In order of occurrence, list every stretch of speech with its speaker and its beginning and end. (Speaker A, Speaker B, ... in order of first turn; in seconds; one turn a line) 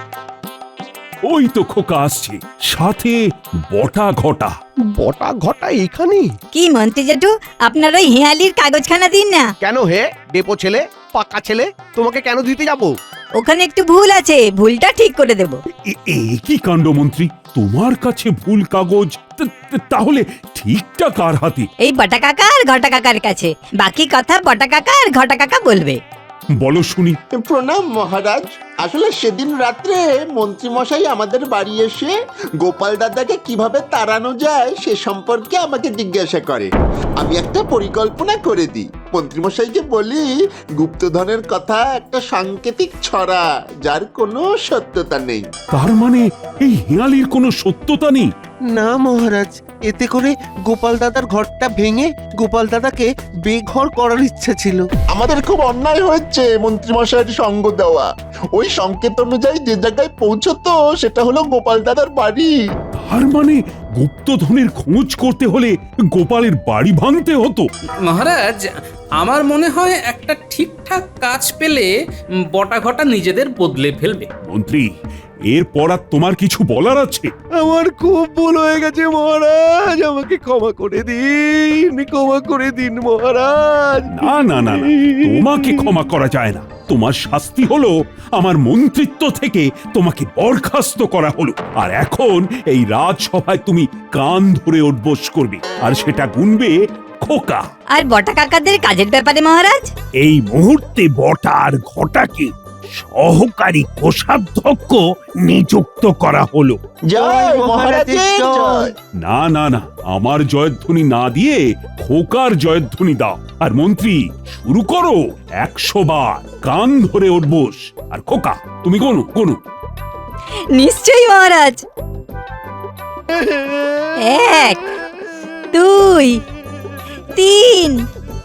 Speaker A: 1.3-3.2
Speaker A: 3.7-4.5
Speaker B: 5.0-6.3
Speaker C: 6.5-9.5
Speaker B: 9.6-12.9
Speaker C: 13.4-15.6
Speaker A: 15.9-21.7
Speaker C: 21.8-26.0
Speaker A: 26.6-27.2
Speaker D: 27.4-40.3
Speaker D: 40.8-45.5
Speaker A: 45.7-48.3
Speaker E: 48.7-54.8
Speaker D: 55.1-62.5
Speaker A: 63.0-67.7
Speaker F: 68.1-71.9
Speaker F: 72.5-74.3
Speaker A: 74.5-74.9
Speaker A: 75.5-77.3
Speaker B: 77.6-84.1
Speaker A: 84.1-97.6
Speaker B: 84.7-85.6
Speaker C: 98.0-99.9
Speaker A: 100.2-106.8
Speaker D: 107.1-108.9
Speaker E: 107.1-108.9
Speaker A: 109.2-119.6
Speaker C: 120.7-121.8
Speaker C: 124.2-124.8
Speaker C: 125.7-126.4
Speaker C: 127.4-128.1